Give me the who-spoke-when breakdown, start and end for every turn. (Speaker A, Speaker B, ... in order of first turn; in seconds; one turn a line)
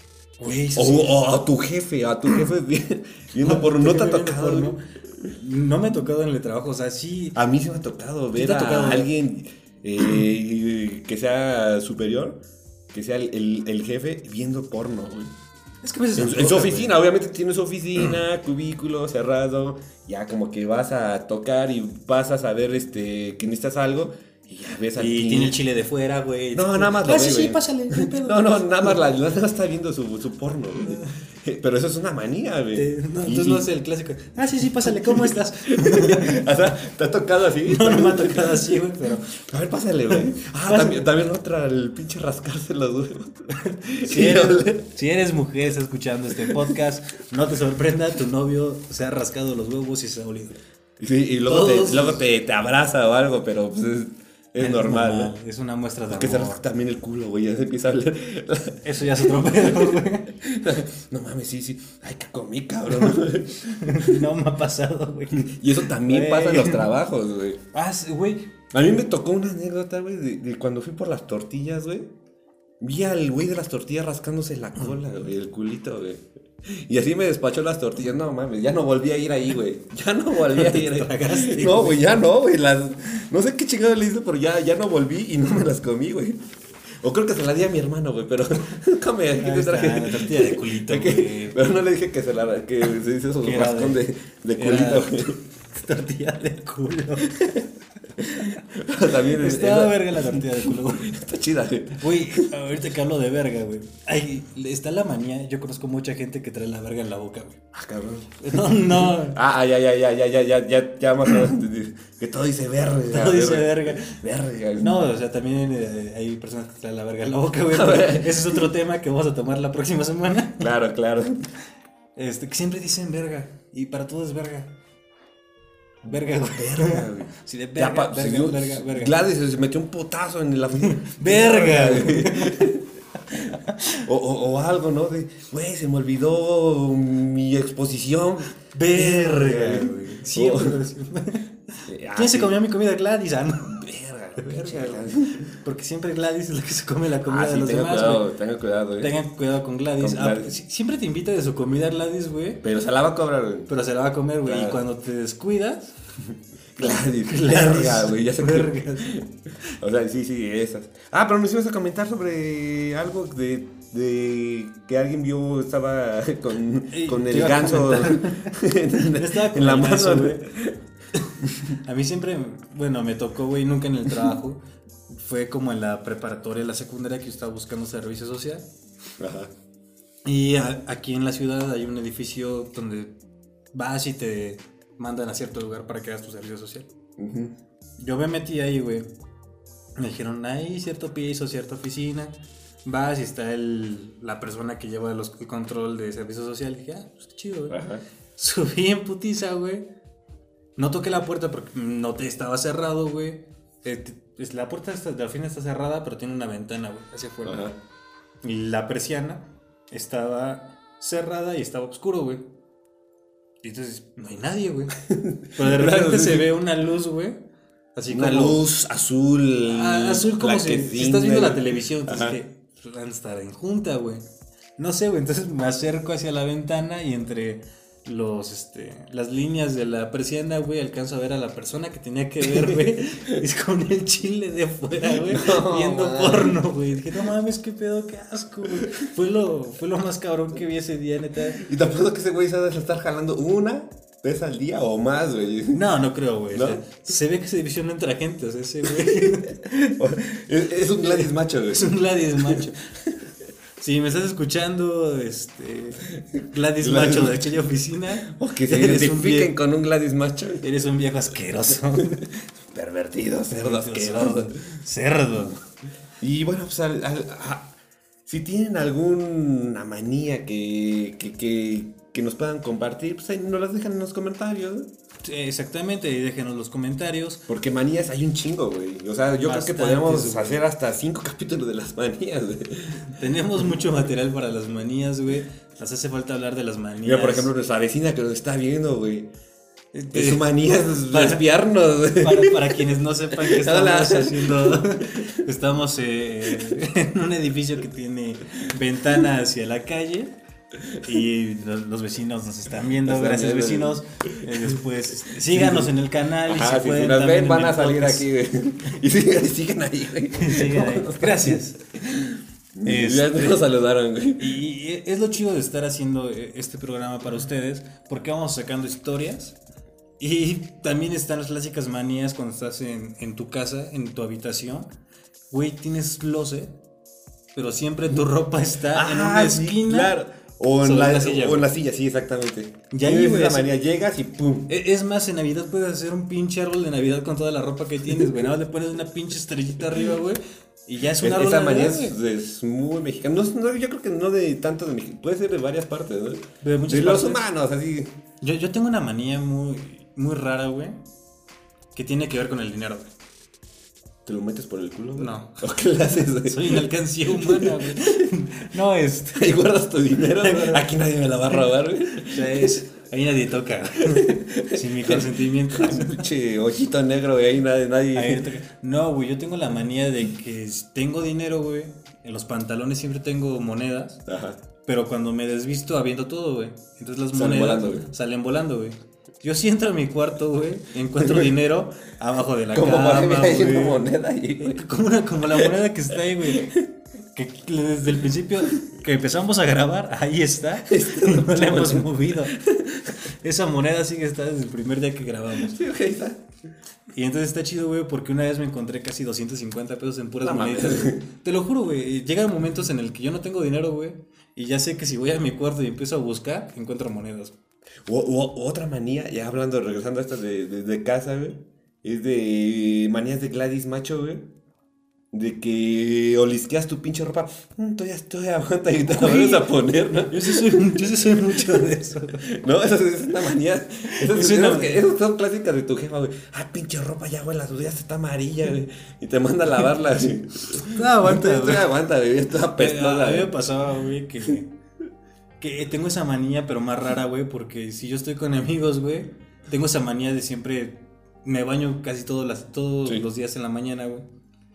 Speaker A: 0.4-1.2
Speaker B: 0.5-4.8
Speaker A: 3.4-7.4
Speaker B: 7.3-15.3
Speaker A: 8.3-9.1
Speaker A: 15.8-16.9
Speaker B: 16.2-25.6
Speaker A: 25.0-29.0
Speaker B: 26.5-33.7
Speaker A: 30.8-31.1
Speaker A: 32.8-36.5
Speaker B: 34.7-38.8
Speaker A: 37.6-39.4
Speaker B: 39.3-44.8
Speaker A: 40.1-41.1
Speaker A: 43.6-50.6
Speaker B: 46.4-46.7
Speaker B: 51.0-55.3
Speaker A: 51.5-52.2
Speaker A: 54.6-56.6
Speaker B: 56.1-64.2
Speaker A: 58.8-60.3
Speaker A: 62.9-66.9
Speaker B: 65.3-67.6
Speaker A: 67.7-68.5
Speaker B: 68.7-72.1
Speaker B: 72.8-86.5
Speaker A: 80.4-82.2
Speaker B: 87.0-95.4
Speaker A: 89.4-91.6
Speaker A: 93.4-94.0
Speaker A: 94.6-95.2
Speaker A: 95.7-97.5
Speaker B: 97.3-97.6
Speaker B: 98.2-102.5
Speaker A: 99.1-101.1
Speaker A: 102.0-107.6
Speaker B: 107.7-115.1
Speaker A: 108.4-109.4
Speaker A: 113.1-114.2
Speaker A: 114.8-120.7
Speaker B: 117.7-118.6
Speaker B: 120.6-121.4
Speaker A: 122.2-124.8
Speaker A: 126.0-129.2
Speaker B: 126.1-140.8
Speaker A: 130.8-132.7
Speaker A: 133.5-134.0
Speaker A: 138.7-143.8
Speaker B: 141.9-142.6
Speaker B: 143.6-145.5
Speaker A: 144.4-148.3
Speaker B: 147.2-149.1
Speaker A: 149.0-152.6
Speaker B: 150.0-150.5
Speaker B: 152.6-153.7
Speaker A: 153.7-155.9
Speaker B: 154.4-154.8
Speaker B: 156.8-170.8
Speaker A: 156.8-159.1
Speaker A: 166.9-168.6
Speaker A: 169.2-170.5
Speaker B: 171.5-171.7
Speaker A: 171.8-178.7
Speaker B: 179.2-179.5
Speaker A: 180.2-183.2
Speaker A: 183.7-186.9
Speaker B: 187.2-187.6
Speaker A: 188.0-189.1
Speaker A: 190.0-192.3
Speaker A: 192.8-197.8
Speaker B: 197.7-198.0
Speaker A: 198.4-199.9
Speaker A: 200.8-207.7
Speaker B: 207.4-207.8
Speaker A: 208.4-212.4
Speaker A: 213.6-215.0
Speaker B: 215.0-216.5
Speaker A: 215.6-217.4
Speaker A: 217.9-218.6
Speaker B: 218.1-222.4
Speaker A: 219.7-224.2
Speaker A: 224.8-241.6
Speaker B: 232.4-233.2
Speaker B: 235.0-236.6
Speaker B: 241.6-245.8
Speaker A: 245.7-249.5
Speaker B: 246.5-246.8
Speaker B: 248.9-252.6
Speaker A: 251.7-252.8
Speaker A: 253.8-259.6
Speaker B: 256.8-257.4
Speaker B: 258.2-260.7
Speaker A: 260.6-262.3
Speaker B: 262.5-264.6
Speaker A: 263.6-265.6
Speaker B: 266.2-267.7
Speaker B: 268.3-274.9
Speaker A: 275.2-277.4
Speaker B: 277.5-283.1
Speaker A: 279.4-280.6
Speaker A: 283.1-287.5
Speaker B: 287.0-289.3
Speaker A: 289.9-291.5
Speaker B: 290.1-292.8
Speaker A: 292.2-300.4
Speaker B: 293.3-295.2
Speaker A: 301.0-308.3
Speaker B: 303.0-304.7
Speaker B: 305.5-314.6
Speaker A: 310.4-311.8
Speaker A: 312.8-313.5
Speaker A: 314.4-319.6
Speaker A: 320.2-324.9
Speaker A: 325.5-326.7
Speaker A: 327.6-330.1
Speaker B: 328.9-334.7
Speaker A: 330.8-331.7
Speaker A: 332.9-333.7
Speaker A: 334.7-342.2
Speaker B: 341.2-348.1
Speaker A: 346.6-347.4
Speaker A: 348.4-351.0
Speaker A: 351.9-353.1
Speaker B: 354.2-358.2
Speaker A: 355.2-355.6
Speaker A: 356.4-359.7
Speaker B: 359.4-362.8
Speaker A: 360.2-360.9
Speaker A: 361.4-361.7
Speaker A: 362.3-366.2
Speaker B: 364.1-368.5
Speaker A: 368.1-374.2
Speaker B: 374.3-374.6
Speaker A: 374.8-386.8
Speaker B: 377.3-378.1
Speaker B: 381.2-381.5
Speaker B: 382.7-384.8
Speaker B: 386.5-386.8
Speaker A: 387.4-392.6
Speaker B: 390.9-393.2
Speaker A: 393.4-395.8
Speaker B: 395.5-396.4
Speaker A: 397.1-407.6
Speaker B: 400.4-401.2
Speaker B: 408.1-414.5
Speaker B: 415.3-421.9
Speaker A: 419.1-419.7
Speaker A: 420.3-422.4
Speaker B: 422.4-433.6
Speaker A: 424.1-425.0
Speaker A: 430.8-431.9
Speaker A: 432.8-434.7
Speaker A: 435.6-444.2